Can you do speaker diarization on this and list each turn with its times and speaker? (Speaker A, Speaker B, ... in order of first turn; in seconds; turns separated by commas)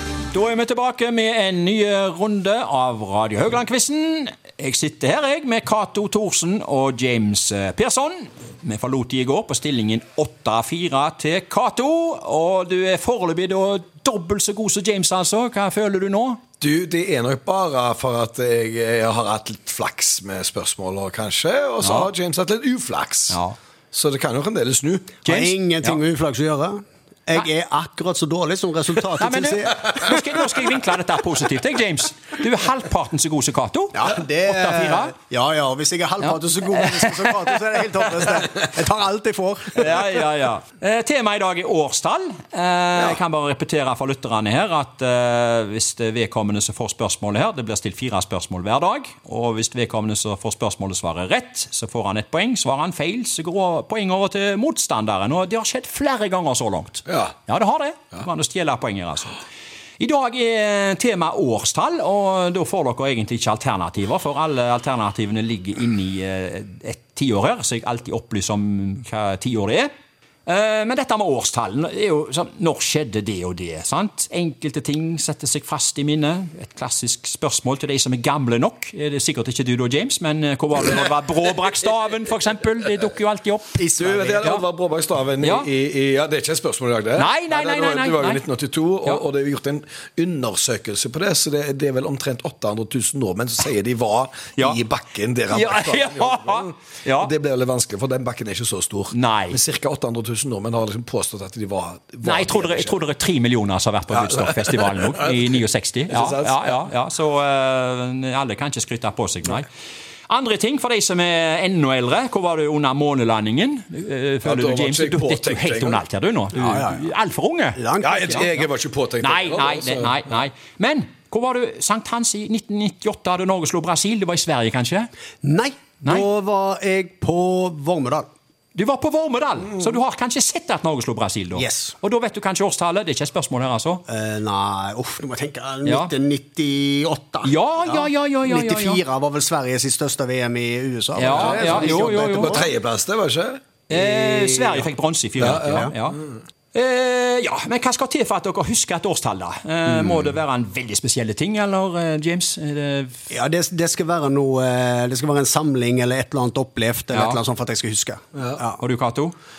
Speaker A: 0.3-16.4, Speaker B: 16.6-23.4, Speaker A: 21.8-22.1, Speaker A: 23.3-23.6, Speaker B: 23.9-25.1, Speaker A: 25.2-26.0, Speaker C: 25.2-30.7, Speaker A: 29.2-35.1, Speaker C: 33.9-40.0, Speaker A: 36.2-38.3, Speaker A: 39.8-59.4, Speaker B: 57.1-57.3, Speaker A: 60.0-69.9, Speaker A: 70.5-83.8, Speaker C: 83.8-84.5, Speaker B: 84.0-103.0, Speaker A: 85.4-85.7, Speaker A: 87.2-88.4, Speaker A: 95.5-97.3, Speaker A: 99.1-99.6, Speaker A: 102.2-109.7, Speaker B: 104.1-105.5, Speaker B: 106.1-106.8, Speaker A: 110.3-117.8, Speaker B: 114.4-116.0, Speaker C: 116.5-117.0, Speaker C: 117.8-118.6, Speaker B: 118.0-120.2, Speaker A: 119.2-125.1, Speaker C: 125.4-128.3, Speaker A: 126.0-126.3, Speaker A: 128.7-134.0, Speaker C: 131.5-131.9, Speaker C: 134.1-142.7, Speaker A: 135.8-136.1, Speaker A: 137.4-139.0, Speaker A: 141.2-142.6, Speaker B: 141.2-146.3, Speaker A: 143.9-146.2, Speaker A: 146.7-153.2, Speaker C: 153.3-158.8, Speaker A: 157.1-157.4, Speaker B: 158.3-158.6, Speaker A: 158.8-159.3